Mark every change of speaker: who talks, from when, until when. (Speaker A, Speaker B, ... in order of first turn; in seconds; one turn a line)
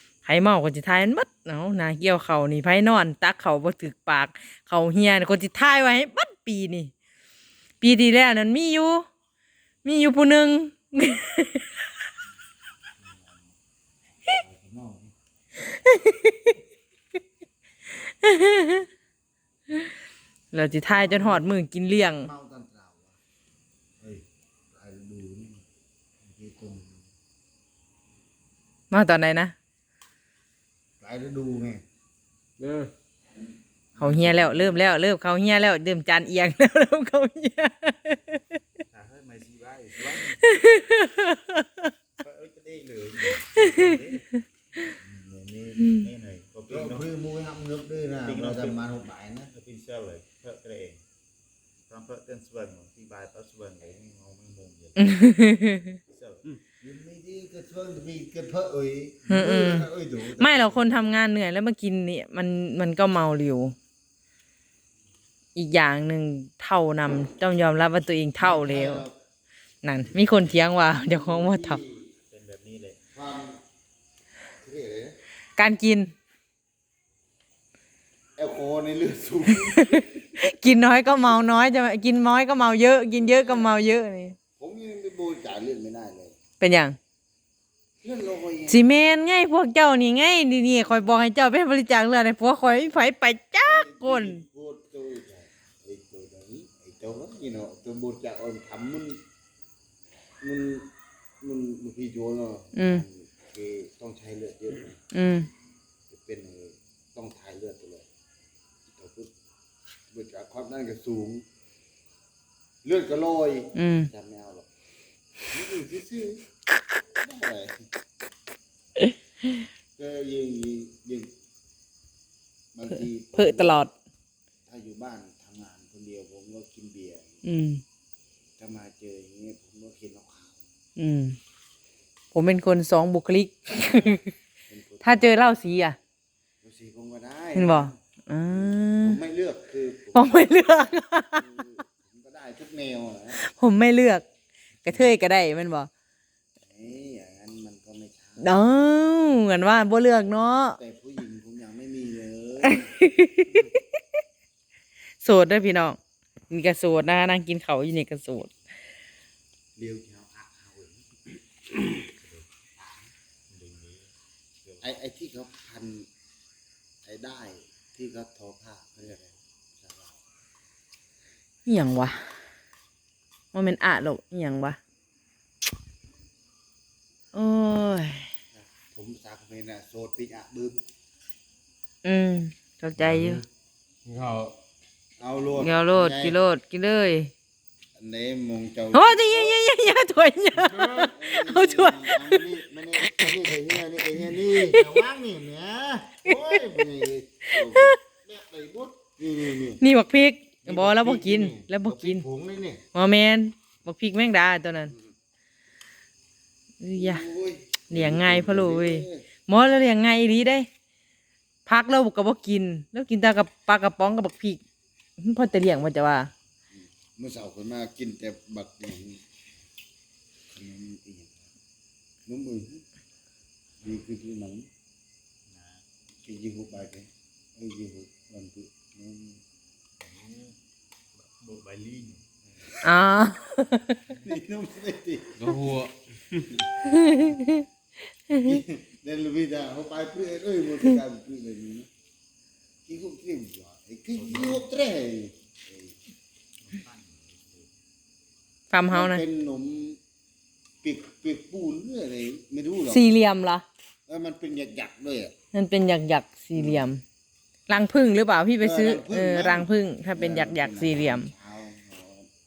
Speaker A: 0.2-6.9
Speaker A: 7.8-9.0
Speaker A: 9.8-11.7
Speaker B: 13.0-13.4
Speaker B: 14.3-15.1
Speaker A: 15.8-16.5
Speaker A: 18.2-18.9
Speaker A: 20.5-22.3
Speaker B: 20.9-21.6
Speaker B: 22.2-23.2
Speaker B: 24.0-25.6
Speaker B: 26.2-27.1
Speaker A: 28.9-29.5
Speaker B: 31.0-31.8
Speaker C: 32.6-32.9
Speaker B: 33.9-34.8
Speaker A: 34.0-38.4
Speaker D: 38.9-40.5
Speaker A: 40.4-41.9
Speaker D: 42.2-44.3
Speaker D: 45.0-47.0
Speaker B: 46.7-49.5
Speaker D: 48.2-48.8
Speaker D: 49.5-51.0
Speaker D: 51.9-55.1
Speaker A: 55.0-56.0
Speaker D: 56.1-56.5
Speaker B: 56.8-61.0
Speaker A: 59.3-63.7
Speaker A: 65.5-69.1
Speaker B: 68.4-69.1
Speaker A: 69.8-71.8
Speaker B: 71.0-72.1
Speaker D: 72.3-73.0
Speaker B: 73.1-73.6
Speaker B: 74.6-75.2
Speaker A: 75.6-76.1
Speaker B: 78.4-80.2
Speaker A: 79.7-84.3
Speaker B: 83.1-83.8
Speaker B: 84.6-86.4
Speaker A: 86.6-87.0
Speaker B: 88.0-88.8
Speaker A: 88.7-94.4
Speaker B: 93.6-99.2
Speaker B: 100.4-100.9
Speaker B: 101.4-105.0
Speaker A: 102.7-103.0
Speaker A: 105.1-105.5
Speaker B: 106.1-108.1
Speaker B: 108.9-109.3
Speaker B: 110.1-111.4
Speaker B: 112.8-114.7
Speaker A: 113.7-114.1
Speaker B: 115.5-116.4
Speaker B: 117.2-117.9
Speaker B: 120.0-121.3
Speaker B: 122.7-123.8
Speaker A: 123.3-123.9
Speaker B: 124.7-127.4
Speaker A: 127.4-127.8
Speaker B: 128.6-130.7
Speaker A: 131.0-131.4
Speaker A: 132.3-134.3
Speaker B: 134.7-135.3
Speaker A: 135.0-136.0
Speaker B: 136.6-137.9
Speaker A: 137.5-139.2
Speaker B: 138.5-140.7
Speaker A: 140.1-141.4
Speaker B: 141.3-143.4
Speaker A: 143.3-144.2
Speaker A: 144.8-145.9
Speaker B: 144.9-145.1
Speaker B: 146.6-148.5
Speaker A: 148.4-150.8
Speaker B: 150.8-152.9
Speaker A: 152.6-153.8
Speaker A: 155.2-156.0
Speaker A: 156.5-158.5
Speaker B: 159.8-162.0
Speaker D: 162.2-162.5
Speaker D: 163.5-164.1
Speaker B: 164.8-166.1
Speaker B: 167.0-170.2
Speaker A: 171.7-172.3
Speaker A: 173.5-174.8
Speaker A: 177.3-178.3
Speaker B: 178.5-180.8
Speaker A: 182.0-183.4
Speaker C: 183.0-183.4
Speaker C: 184.0-184.6
Speaker B: 185.2-186.4
Speaker A: 185.6-187.3
Speaker B: 187.9-189.6
Speaker A: 188.9-192.4
Speaker B: 190.7-199.8
Speaker A: 193.0-193.3
Speaker A: 199.8-202.2
Speaker B: 200.6-202.8
Speaker A: 202.9-204.9
Speaker A: 206.8-207.2
Speaker B: 206.9-209.2
Speaker A: 207.9-210.7
Speaker A: 211.7-214.6
Speaker A: 215.2-216.3
Speaker B: 216.7-219.2
Speaker B: 220.5-221.5
Speaker B: 222.2-222.8
Speaker B: 223.8-224.7
Speaker D: 225.5-225.8
Speaker B: 226.2-229.4
Speaker D: 230.0-230.5
Speaker D: 231.2-232.7
Speaker A: 232.8-234.0
Speaker B: 234.1-235.7
Speaker C: 235.4-236.0
Speaker A: 236.8-237.6
Speaker A: 238.3-238.5
Speaker B: 238.3-241.9
Speaker B: 242.9-246.0
Speaker D: 244.2-244.6
Speaker D: 246.7-247.6
Speaker A: 248.7-249.2
Speaker B: 248.9-250.0
Speaker B: 250.8-253.1
Speaker A: 252.9-253.6
Speaker B: 254.1-255.3
Speaker A: 255.5-257.0
Speaker B: 256.5-256.9
Speaker A: 257.7-261.3
Speaker B: 258.6-262.3